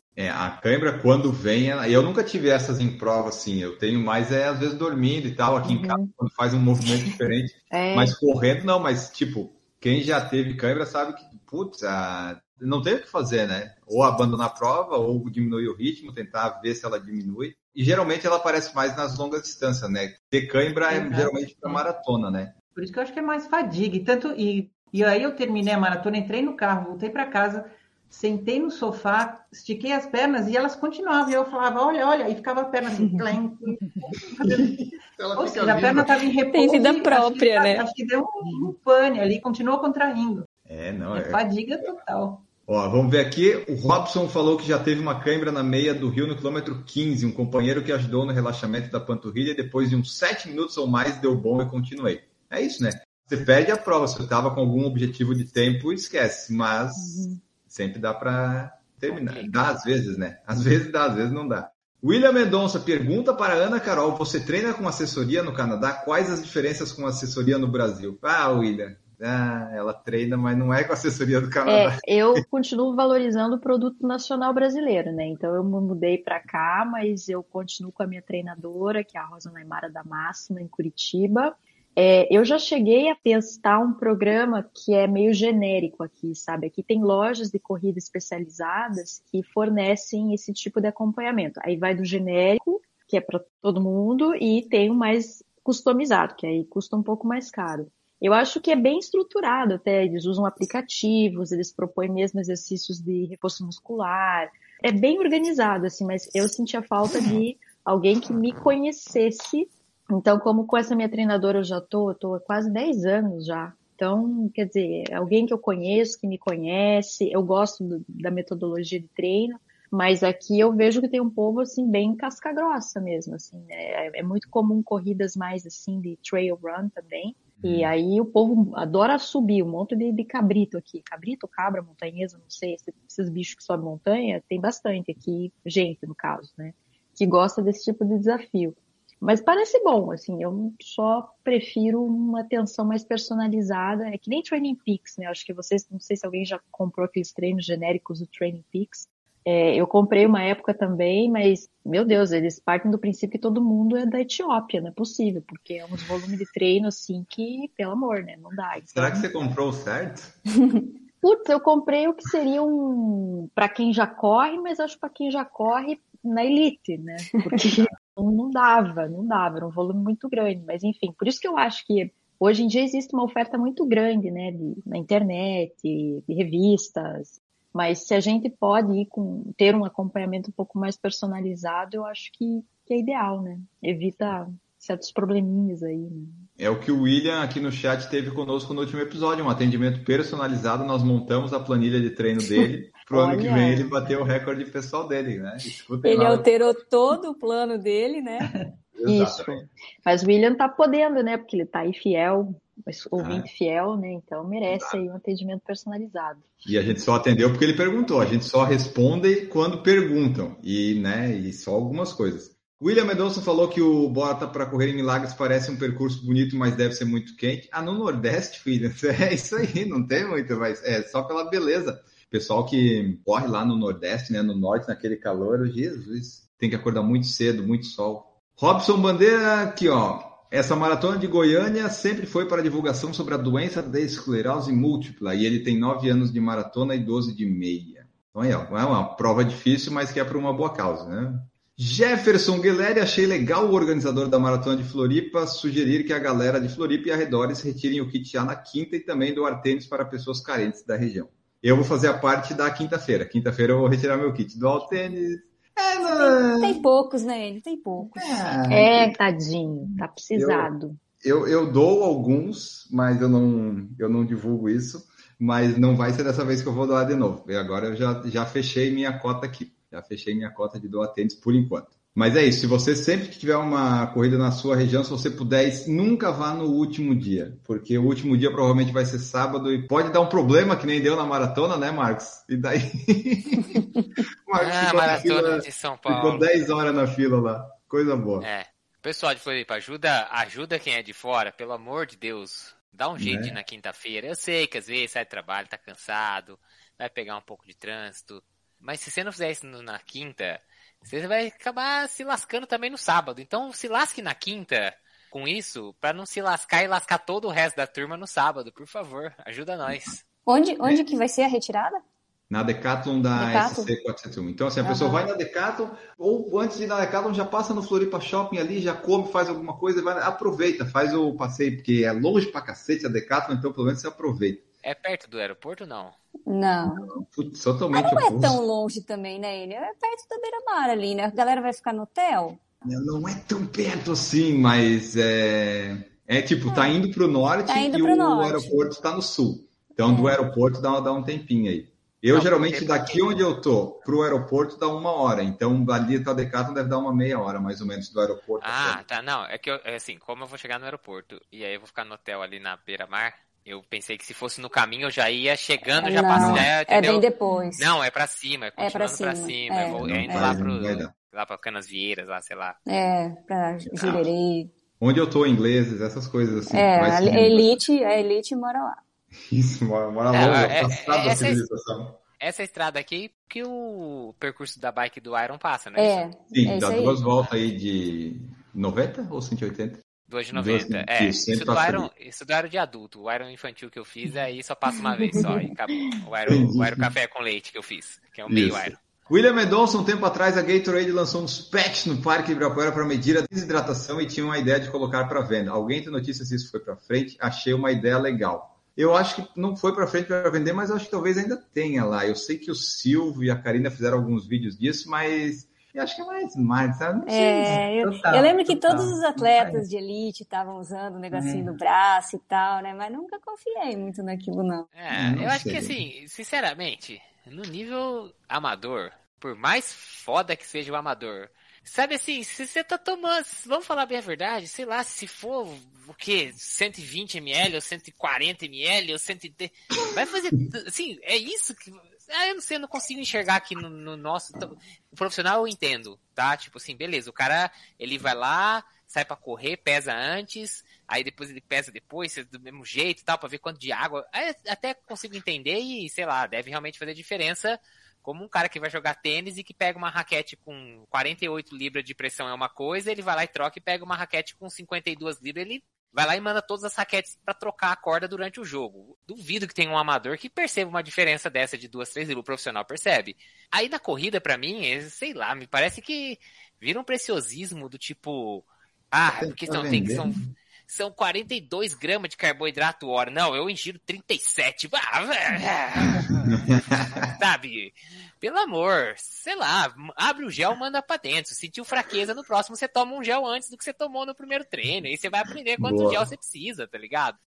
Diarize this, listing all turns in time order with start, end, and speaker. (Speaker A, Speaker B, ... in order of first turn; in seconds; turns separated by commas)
Speaker A: 0.1-22.5, Speaker B: 5.6-6.1, Speaker B: 7.7-8.2, Speaker C: 20.9-21.9, Speaker C: 22.7-34.7, Speaker A: 34.3-36.2, Speaker C: 35.4-40.5, Speaker D: 36.5-37.9, Speaker A: 40.6-41.9, Speaker C: 41.1-42.5, Speaker A: 42.7-72.4, Speaker B: 57.0-57.4, Speaker E: 59.1-59.8, Speaker B: 71.6-159.3, Speaker A: 127.6-127.9, Speaker A: 158.8-160.3, Speaker B: 161.2-186.4, Speaker A: 186.6-196.5, Speaker B: 193.1-193.9, Speaker D: 196.0-198.5, Speaker A: 198.9-199.7, Speaker B: 199.0-206.4, Speaker A: 203.2-203.5, Speaker A: 204.7-205.0, Speaker A: 206.6-256.8, Speaker D: 256.0-258.4, Speaker A: 258.1-259.1, Speaker C: 258.2-258.5, Speaker B: 258.7-261.0, Speaker A: 260.4-260.7, Speaker A: 261.2-283.8, Speaker A: 284.4-288.5, Speaker E: 284.6-286.5, Speaker E: 288.4-310.2, Speaker A: 293.2-293.5, Speaker A: 309.9-310.1, Speaker D: 310.4-312.0, Speaker A: 312.5-324.6, Speaker D: 313.4-313.9, Speaker D: 314.8-315.2, Speaker E: 324.8-326.1, Speaker D: 326.5-327.1, Speaker A: 326.9-328.6, Speaker D: 327.9-332.6, Speaker A: 332.8-349.0, Speaker D: 336.7-337.0, Speaker D: 337.7-338.9, Speaker D: 340.0-340.4, Speaker E: 342.3-343.3, Speaker E: 348.6-357.2, Speaker D: 356.0-357.9, Speaker A: 356.3-356.7, Speaker E: 357.8-362.8, Speaker D: 358.8-360.6, Speaker A: 360.0-361.1, Speaker D: 362.9-364.7, Speaker E: 363.9-364.3, Speaker A: 365.0-367.8, Speaker D: 366.7-369.0, Speaker A: 369.4-372.2, Speaker E: 370.3-371.6, Speaker E: 372.4-376.2, Speaker D: 376.0-377.2, Speaker A: 376.5-382.1, Speaker E: 380.3-389.0, Speaker A: 386.5-387.1, Speaker A: 388.5-407.7, Speaker D: 407.2-414.9, Speaker C: 407.6-409.8, Speaker C: 411.3-411.7, Speaker E: 414.9-487.4, Speaker A: 415.1-415.9, Speaker A: 469.3-470.5, Speaker A: 476.0-477.3, Speaker A: 485.8-486.3